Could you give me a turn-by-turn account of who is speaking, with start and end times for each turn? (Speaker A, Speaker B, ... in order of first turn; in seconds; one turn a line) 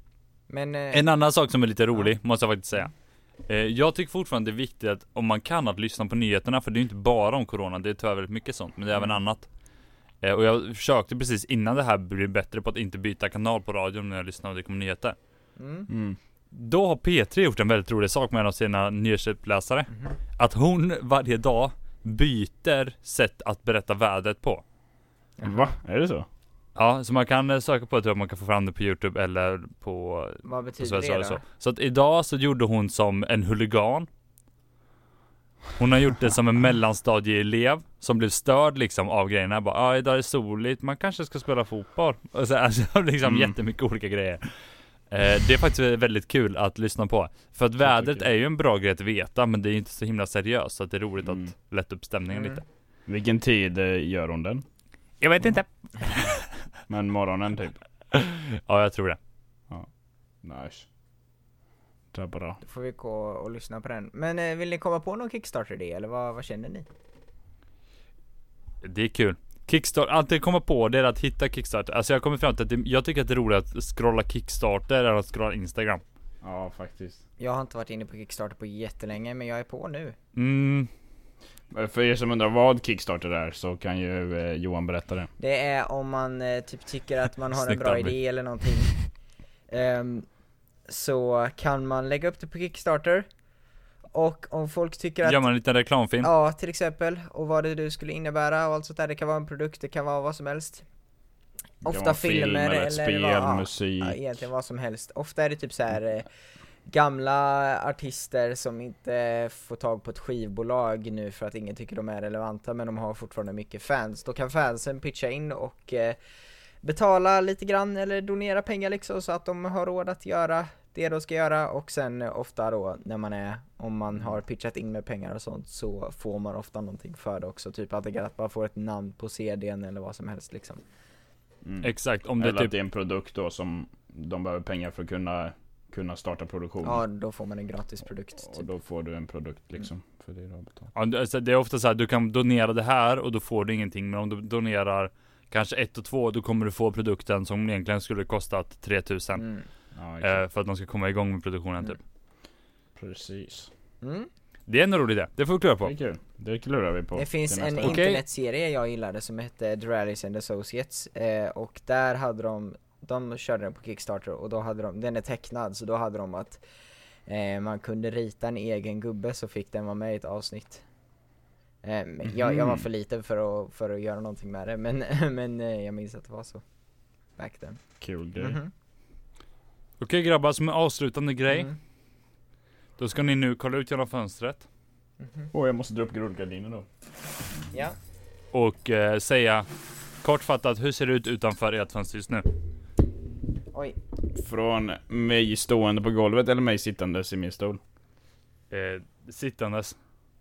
Speaker A: 0.5-1.0
Speaker B: 0.9-2.9
Speaker B: 3.5-9.5
Speaker B: 10.2-15.2
Speaker A: 15.6-15.9
Speaker C: 15.9-16.2
Speaker B: 16.5-24.6
Speaker A: 25.4-25.7
Speaker C: 25.4-26.3
Speaker B: 26.8-34.1
Speaker A: 30.4-31.4
Speaker B: 35.8-44.5
Speaker C: 43.2-43.5
Speaker B: 45.1-52.6
Speaker C: 47.8-48.3
Speaker C: 51.2-51.5
Speaker A: 52.3-52.6
Speaker C: 53.1-54.6
Speaker B: 55.2-56.4
Speaker C: 56.9-57.8
Speaker B: 58.1-59.2
Speaker C: 60.4-60.9
Speaker C: 62.1-62.6
Speaker A: 62.6-66.9
Speaker B: 68.8-76.0
Speaker C: 76.4-77.2
Speaker A: 77.4-80.2
Speaker B: 80.3-80.9
Speaker C: 81.7-85.3
Speaker A: 85.4-88.9
Speaker B: 87.5-88.1
Speaker A: 89.7-90.3
Speaker A: 90.9-93.3
Speaker A: 94.1-95.4
Speaker B: 95.2-96.3
Speaker A: 96.2-100.8
Speaker A: 101.8-106.3
Speaker C: 101.8-104.2
Speaker A: 106.9-116.2
Speaker A: 116.8-130.8
Speaker C: 131.7-137.0
Speaker B: 131.8-132.7
Speaker A: 136.8-138.7
Speaker C: 138.4-140.9
Speaker B: 140.9-149.5
Speaker A: 149.4-149.7
Speaker C: 149.9-150.4
Speaker B: 150.2-152.0
Speaker C: 153.0-153.7
Speaker A: 154.0-154.3
Speaker B: 154.7-155.9
Speaker C: 155.8-158.0
Speaker A: 157.2-166.6
Speaker B: 157.8-158.2
Speaker A: 167.3-170.8
Speaker A: 171.8-176.6
Speaker C: 172.2-172.9
Speaker A: 177.4-177.8
Speaker C: 178.0-178.6
Speaker A: 178.4-178.7
Speaker B: 180.0-181.7
Speaker A: 181.5-181.8
Speaker B: 183.0-184.7
Speaker A: 185.2-185.5
Speaker C: 185.5-186.9
Speaker B: 188.5-189.7
Speaker B: 190.2-192.5
Speaker C: 194.3-197.8
Speaker B: 198.7-200.0